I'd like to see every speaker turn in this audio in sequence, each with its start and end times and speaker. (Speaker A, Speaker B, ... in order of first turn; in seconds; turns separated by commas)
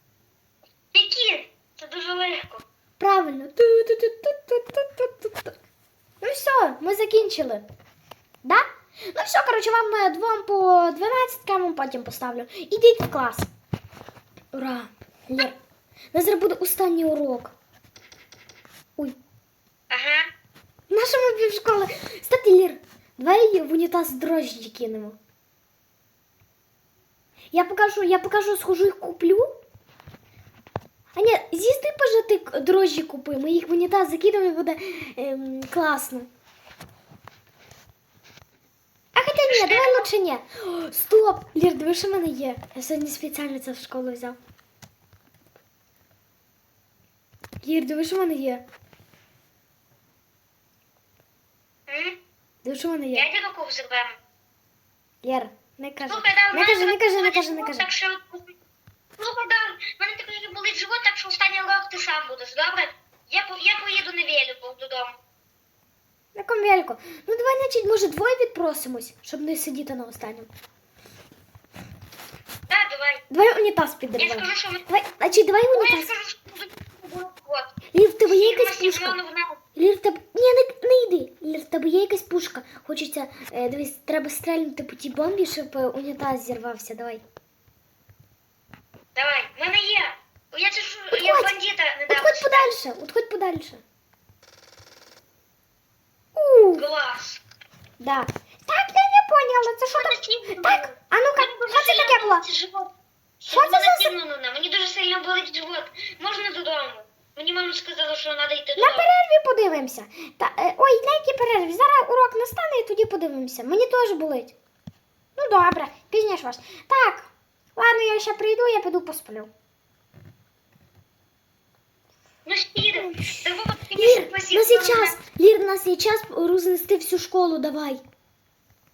Speaker A: 0.9-2.6, Speaker B: 3.0-5.5, Speaker B: 6.2-7.7, Speaker B: 8.4-13.5, Speaker B: 14.5-15.6, Speaker B: 16.1-17.5, Speaker A: 19.9-20.3, Speaker B: 20.9-25.2, Speaker B: 27.5-29.5, Speaker B: 31.1-36.3, Speaker B: 39.1-44.4, Speaker A: 39.3-40.1, Speaker B: 47.6-48.6, Speaker A: 51.9-52.2, Speaker B: 52.6-53.3, Speaker A: 53.1-54.2, Speaker B: 55.2-57.9, Speaker A: 56.1-58.5, Speaker A: 59.2-65.2, Speaker B: 66.3-70.5, Speaker A: 72.7-73.2, Speaker B: 73.3-76.1, Speaker A: 74.2-74.8, Speaker A: 75.7-79.6, Speaker B: 77.9-79.2, Speaker B: 79.7-87.2, Speaker A: 89.1-92.7, Speaker B: 91.1-91.6, Speaker B: 92.1-93.8, Speaker B: 96.3-96.9, Speaker A: 96.8-97.4, Speaker B: 98.0-102.4, Speaker A: 99.9-109.1, Speaker B: 103.5-104.1, Speaker B: 108.8-114.5, Speaker B: 115.3-119.5, Speaker A: 122.4-125.2, Speaker B: 123.0-128.0